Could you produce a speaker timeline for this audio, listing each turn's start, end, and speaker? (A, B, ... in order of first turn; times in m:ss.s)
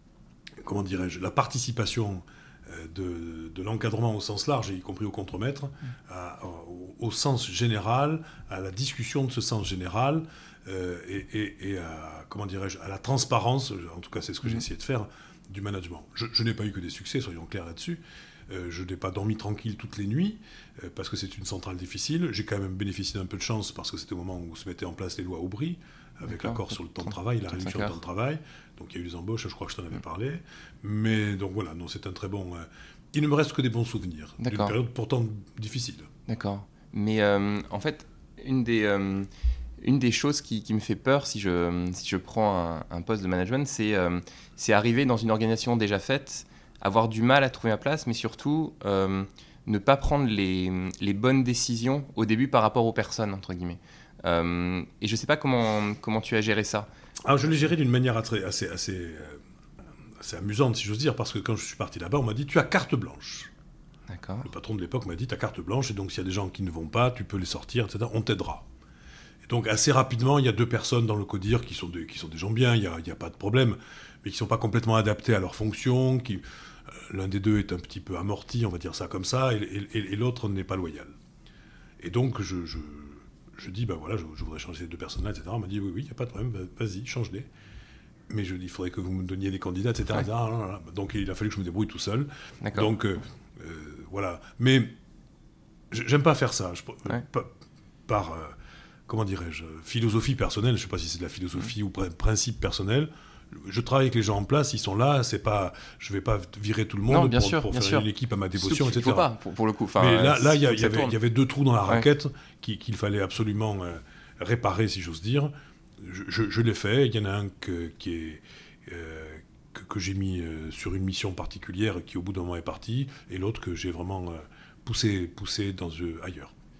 0:00.6-0:36.1 A
0:26.3-0:28.0 B
0:34.4-0:34.7 B
0:36.3-0:39.3 B
0:39.8-0:56.9 B
0:57.3-0:59.4 A
1:00.2-1:03.5 A
1:04.1-1:04.5 B
1:04.4-1:08.6 A
1:09.5-1:16.4 A
1:17.1-1:21.1 A
1:22.0-1:27.5 A
1:28.3-1:34.9 A
1:32.6-1:32.9 B
1:35.9-1:37.5 A
1:38.1-1:38.6 A
1:39.1-1:49.3 A
1:47.1-1:51.2 B
1:50.0-2:06.5 A